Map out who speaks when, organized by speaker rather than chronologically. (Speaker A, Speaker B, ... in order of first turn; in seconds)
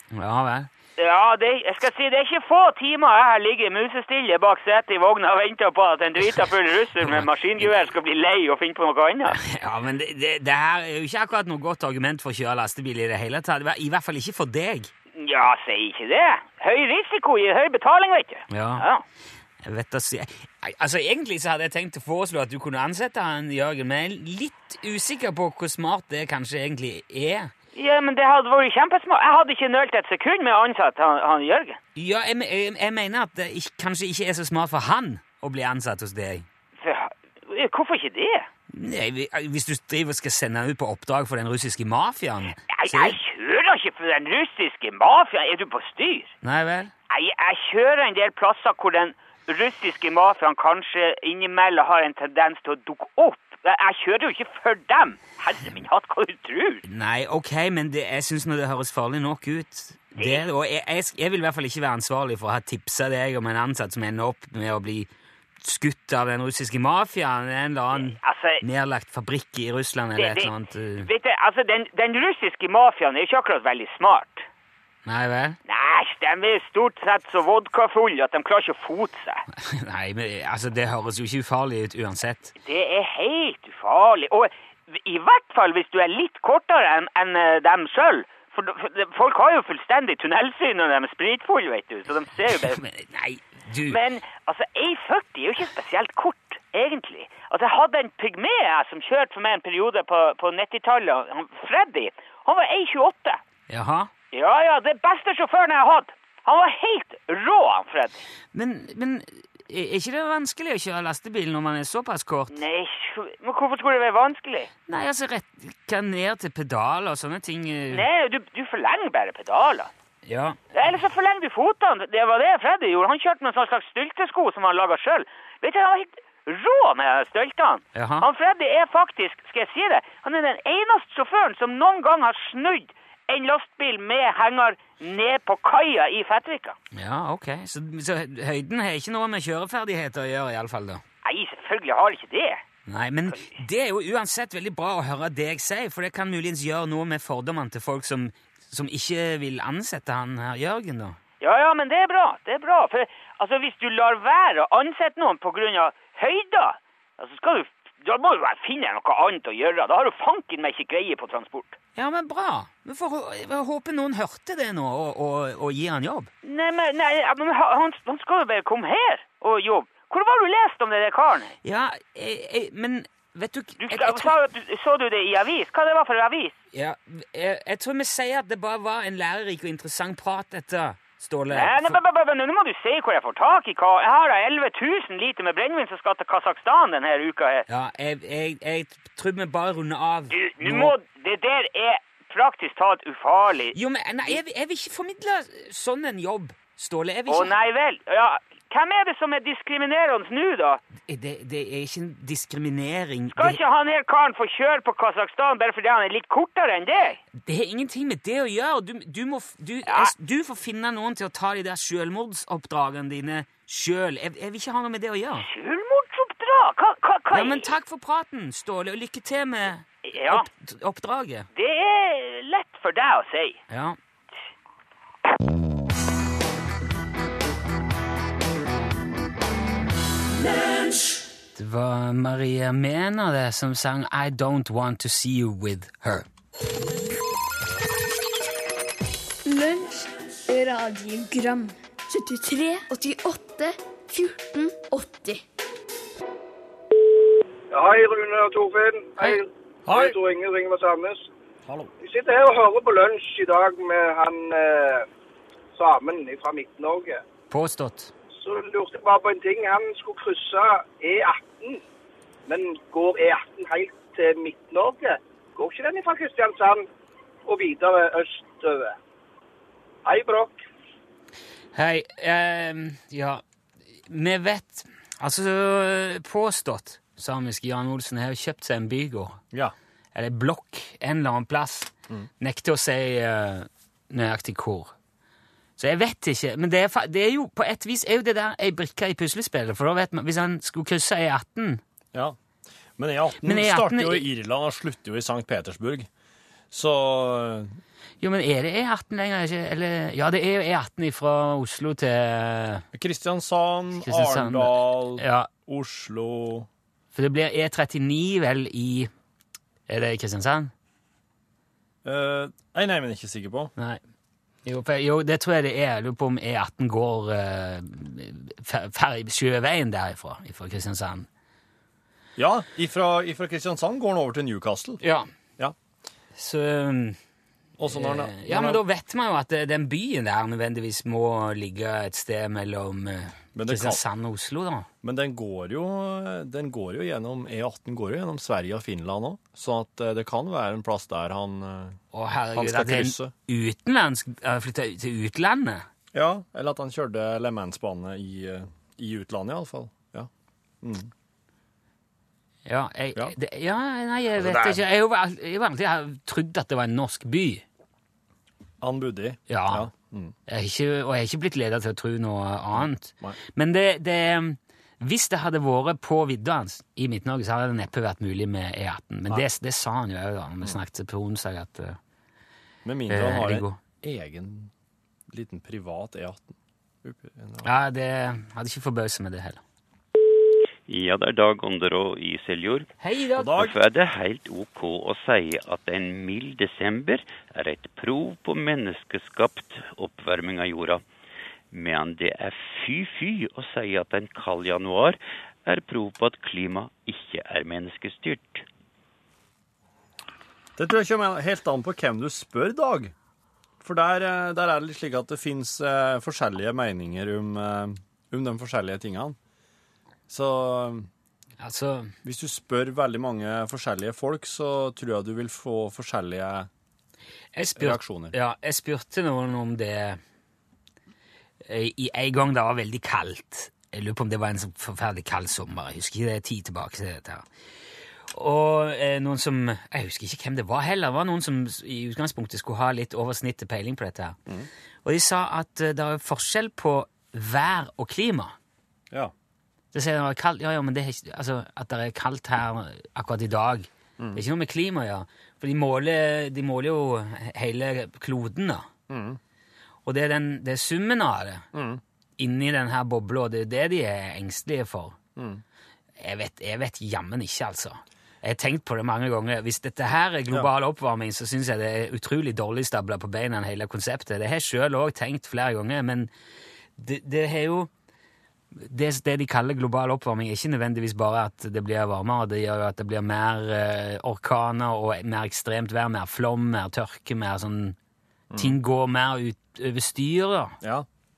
Speaker A: 0.1-0.7, 9.3-14.9, 18.5-18.9, 19.6-27.5, 31.9-36.5, 38.7-43.1, 46.4-46.9, 56.9-65.1, 65.6-71.1, 75.0-75.6, 79.6-82.5, 92.7-94.0, 103.7-104.1, 108.5-112.6, 114.9-118.0, 120.2-120.6, 127.9-128.3, 136.9-141.0, 142.9-151.2, 161.9-166.3, 171.6-174.3, 176.7-182.0, 187.7-190.9, 193.7-197.5, 201.1-203.6, 207.4-215.5, 217.3-221.5, 223.7-224.0, 231.5-236.2, 257.5-258.1, 271.7-273.4, 274.1-279.4, 280.1-284.9, 285.8-291.8, 293.4-294.2, 298.2-302.8, 304.0-305.5, 307.1-309.1, 309.9-310.7, 314.6-321.3, 325.0-325.3, 326.4-327.2, 327.9-334.9, 342.1-345.9, 352.6-357.6, 359.5-359.9, 360.5-372.0, 373.1-373.8, 377.6-379.6, 383.0-383.6, 411.6-412.1, 417.5-420.2, 421.6-427.4, 428.3-434.4, 435.0-438.5, 439.9-448.9, 450.0-451.6, 452.4-455.2, 456.2-466.3, 467.0-467.9, 468.7-477.9, 478.6-480.8
Speaker B: 1.0-9.4, 15.1-19.0, 27.7-31.8, 36.8-38.5, 42.7-46.3, 47.1-56.8, 60.2-60.4, 67.9-68.6, 70.2-74.5, 75.7-79.4, 82.6-92.8, 93.9-103.4, 104.3-108.2, 112.5-114.7, 117.9-119.9, 120.7-136.8, 141.2-142.6, 151.4-161.8, 166.4-171.6, 173.8-176.5, 181.5-187.7, 190.3-193.7, 197.3-200.8, 203.3-207.2, 209.9-210.1, 215.4-217.7, 220.0-220.5, 221.5-223.6
Speaker C: 239.4-245.4
Speaker D: 247.7-251.3, 252.0-255.1, 255.7-257.2, 258.4-261.8, 262.5-266.9, 267.4-268.9, 270.0-270.6
Speaker E: 249.9-250.1, 293.0-296.1, 296.7-297.7, 302.9-306.7, 312.0-313.7, 322.4-325.0, 327.8-328.8, 333.5-334.0, 335.0-342.0, 342.5-343.3, 346.1-350.3, 350.8-351.1, 354.4-354.8, 358.8-360.3, 362.7-363.4, 372.8-374.7, 375.3-377.7, 383.4-383.8, 400.8-403.1, 403.8-409.4, 410.3-411.1, 412.2-416.7, 417.8-418.3, 449.1-449.4, 451.7-452.0, 455.4-455.6, 478.5-478.8, 480.8-481.1
Speaker F: 380.9-382.9, 383.5-391.0, 391.7-398.6